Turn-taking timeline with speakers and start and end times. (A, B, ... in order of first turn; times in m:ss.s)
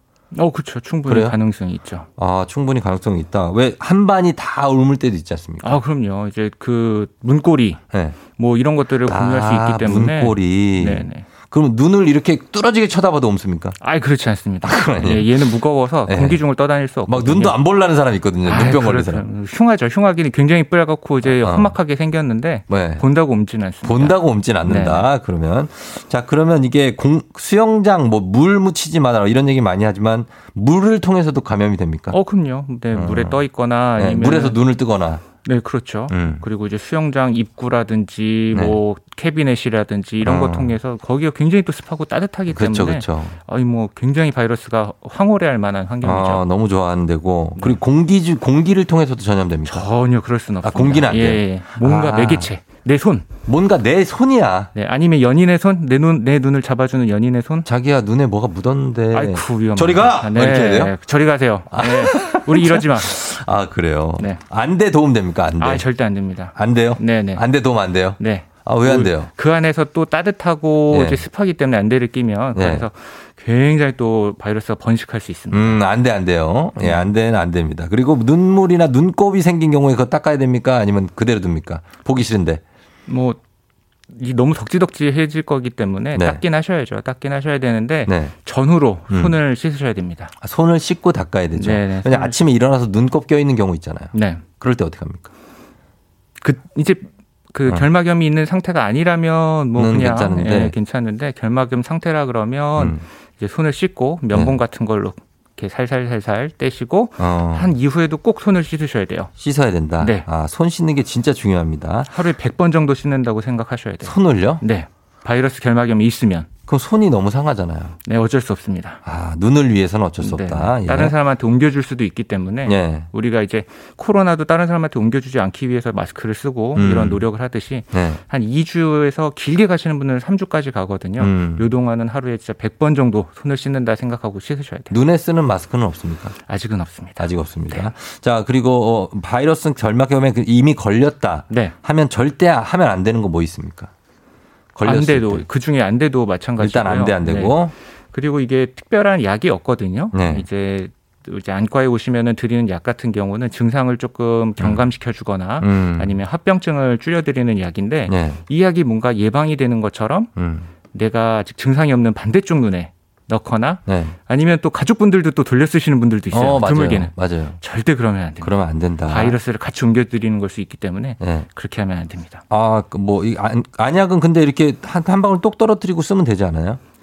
0:00.3-0:02.1 A
0:01.1-0:01.4 B
0:02.2-0:05.8 B
0:05.6-0:11.3 A
0:07.9-0:08.2 B
0:09.0-0:13.8 B
0:13.8-0:17.6 A
0:14.6-0:16.4 B
0:17.1-0:19.3 B
0:18.4-0:25.1 A
0:21.2-0:21.7 B
0:22.7-0:23.0 B
0:23.8-0:32.2 B
0:32.1-0:34.6 A
0:32.9-0:33.4 B
0:34.0-0:35.2 B
0:35.4-0:46.4 A
0:36.1-0:36.4 B
0:38.5-0:38.8 B
0:40.2-0:40.8 B
0:42.5-0:43.4 B
0:46.0-0:49.9 B
0:49.6-0:53.3 A
0:50.6-0:52.5 B
0:53.5-0:54.7 B
0:54.7-0:57.7 A
0:57.6-1:00.9 B
0:59.1-1:03.2 A
1:01.7-1:05.8 B
1:05.6-1:07.4 A
1:06.6-1:09.3 B
1:08.2-1:15.8 A
1:10.9-1:11.2 B
1:12.5-1:12.9 B
1:15.5-1:22.6 B
1:16.8-1:17.1 A
1:23.1-1:23.4 A
1:24.1-1:30.3 A
1:26.1-1:26.4 B
1:28.0-1:28.3 B
1:29.1-1:29.4 B
1:30.4-1:35.3 B
1:31.5-1:32.4 A
1:34.1-1:34.4 A
1:36.4-1:49.3 A
1:39.8-1:40.7 B
1:42.8-1:43.0 B
1:44.3-1:44.6 B
1:47.2-1:47.7 B
1:49.4-1:52.1 B
1:50.0-1:50.3 A
1:52.1-1:56.5 A
1:54.0-1:54.6 B
1:56.7-1:58.0 B
1:58.0-1:59.0 A
1:59.0-2:01.1 B
2:00.2-2:14.9 A
2:02.6-2:03.1 B
2:06.8-2:07.2 B
2:07.9-2:08.2 B
2:11.2-2:11.6 B
2:14.9-2:16.3 B
2:16.4-2:17.9 A
2:17.2-2:23.9 B
2:21.5-2:21.7 A
2:24.7-2:25.4 B
2:24.8-2:27.6 A
2:26.6-2:27.7 B
2:28.1-2:40.3 A
2:30.1-2:30.4 B
2:34.6-2:34.8 B
2:35.6-2:36.2 B
2:38.1-2:38.4 B
2:40.4-2:40.7 B
2:40.9-2:52.4 A
2:43.9-2:44.1 B
2:46.3-2:47.6 B
2:48.4-2:49.4 B
2:51.2-2:51.4 B
2:52.5-2:56.8 B